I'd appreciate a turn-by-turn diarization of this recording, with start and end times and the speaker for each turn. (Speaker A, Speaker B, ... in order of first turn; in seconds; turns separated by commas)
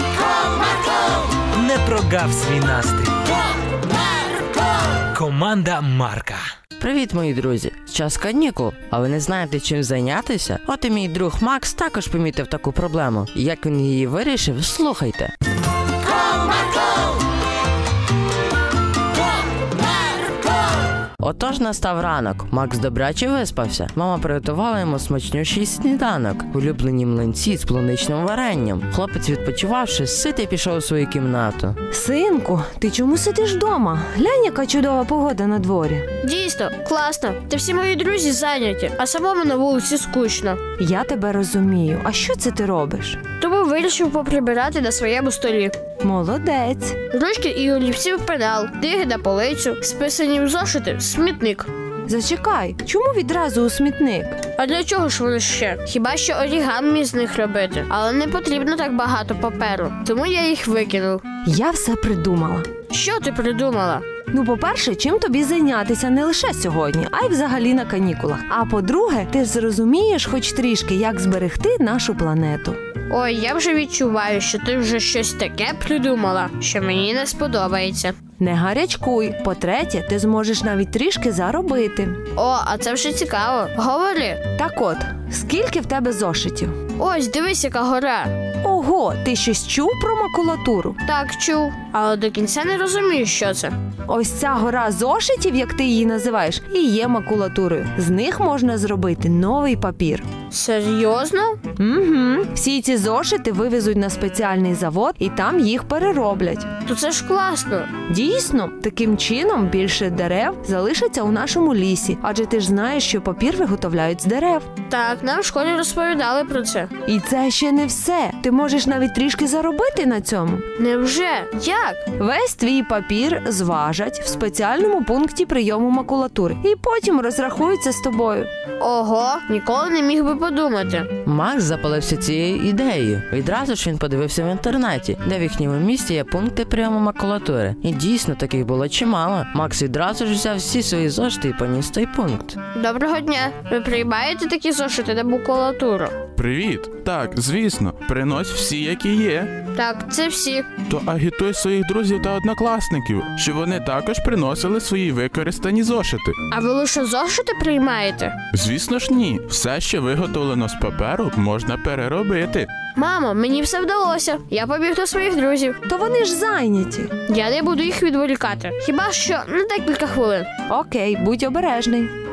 Speaker A: 1.4-3.3, Speaker A: 5.1-6.5, Speaker B: 6.8-15.3, Speaker B: 21.2-31.8, Speaker C: 31.9-36.0, Speaker D: 36.2-40.6, Speaker C: 40.8-43.2, Speaker D: 43.4-45.7, Speaker C: 46.0-47.0, Speaker D: 47.1-51.7, Speaker C: 52.1-54.4, Speaker D: 54.5-61.2, Speaker C: 61.4-62.7, Speaker D: 62.9-64.0, Speaker C: 64.3-72.8, Speaker D: 73.1-78.1, Speaker C: 78.4-82.2, Speaker D: 82.3-84.4, Speaker C: 84.5-86.7, Speaker D: 87.0-88.3, Speaker C: 88.6-91.0, Speaker D: 91.0-93.7, Speaker C: 94.1-100.2, Speaker D: 100.5-101.6, Speaker C: 101.8-106.7, Speaker D: 106.8-107.9, Speaker C: 108.1-114.7, Speaker D: 114.9-116.9, Speaker C: 117.0-120.6, Speaker D: 120.8-122.0, Speaker C: 122.2-128.5, Speaker D: 128.8-131.1, Speaker B: 131.2-142.6, Speaker D: 142.7-146.1, Speaker E: 146.3-149.5, Speaker D: 149.7-150.7, Speaker E: 150.9-156.4, Speaker D: 156.5-158.3, Speaker E: 158.5-162.7, Speaker D: 162.9-165.8, Speaker C: 165.9-167.1, Speaker D: 167.3-170.5, Speaker C: 170.7-172.1